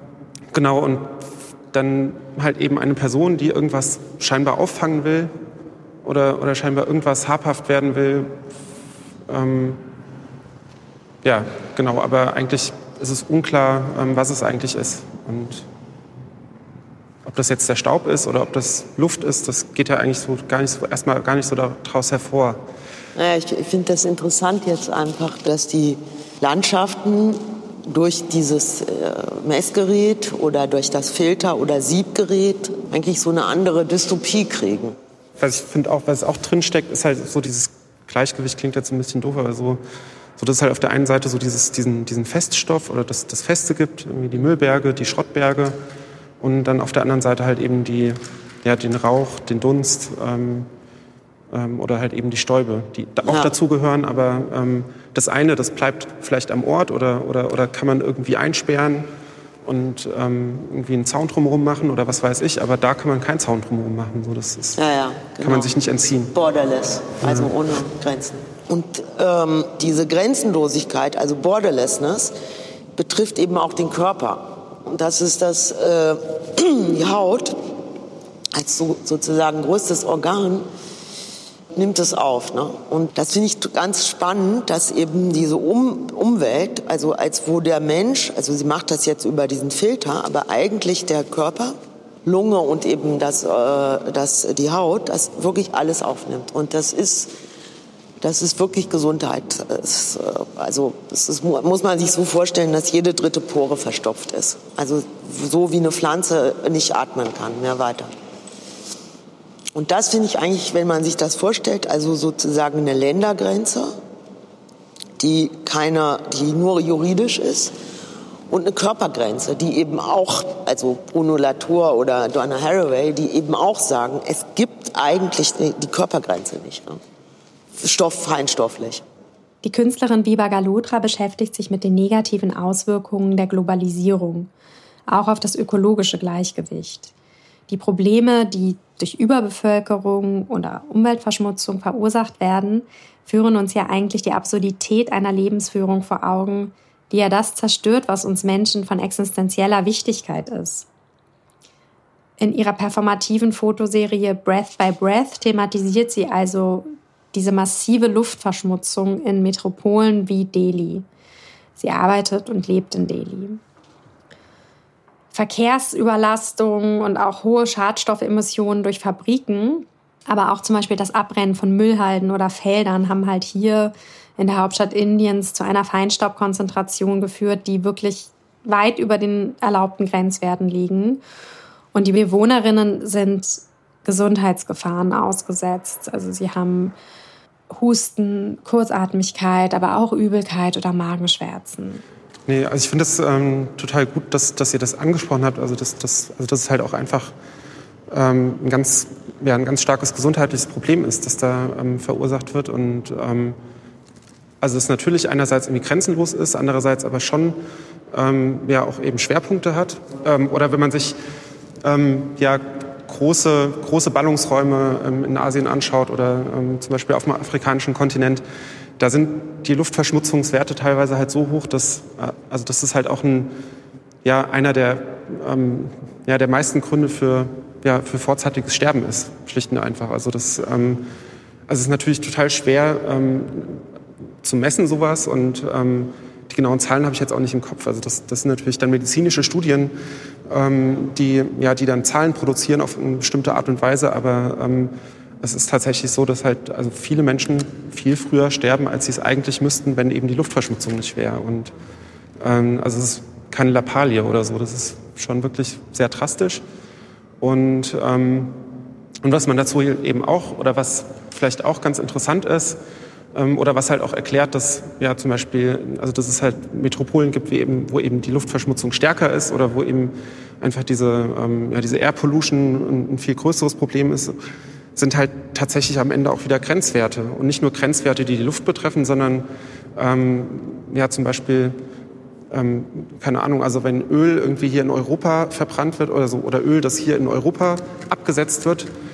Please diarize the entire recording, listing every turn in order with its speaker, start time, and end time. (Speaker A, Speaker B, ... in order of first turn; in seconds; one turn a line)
Speaker A: 0.5-5.3
Speaker A: 6.0-8.5
Speaker A: 9.3-9.8
Speaker A: 11.2-15.7
Speaker A: 17.2-22.6
Speaker B: 23.1-35.0
Speaker A: 35.4-39.8
Speaker A: 40.4-45.8
Speaker A: 46.4-50.7
Speaker A: 51.5-59.1
Speaker B: 53.2-53.5
Speaker A: 59.6-64.8
Speaker B: 64.8-65.8
Speaker A: 65.4-66.3
Speaker B: 66.3-72.3
Speaker A: 67.2-67.5
Speaker B: 73.0-77.6
Speaker B: 78.5-80.7
Speaker B: 81.8-97.3
Speaker B: 98.2-108.1
Speaker B: 109.7-113.9
Speaker B: 115.2-117.7
Speaker B: 118.5-127.0
Speaker B: 127.8-129.0
Speaker C: 129.6-134.5
Speaker C: 135.1-137.1
Speaker C: 137.7-150.9
Speaker C: 152.4-161.1
Speaker C: 161.8-163.6
Speaker C: 165.3-181.2
Speaker C: 181.9-186.9
Speaker C: 187.7-192.0
Speaker A: 192.5-197.3
Speaker A: 198.1-203.6
Speaker A: 204.6-207.6
Speaker A: 208.1-211.2
Speaker A: 211.8-218.4
Speaker A: 219.0-223.5
Speaker A: 224.2-231.1
Speaker A: 231.7-233.8
Speaker A: 234.4-239.9
Speaker A: 240.5-251.7
Speaker A: 252.4-256.6
Speaker A: 257.4-258.6
Speaker A: 259.2-262.8
Speaker A: 263.3-274.4
Speaker A: 275.0-281.8
Speaker A: 282.5-288.9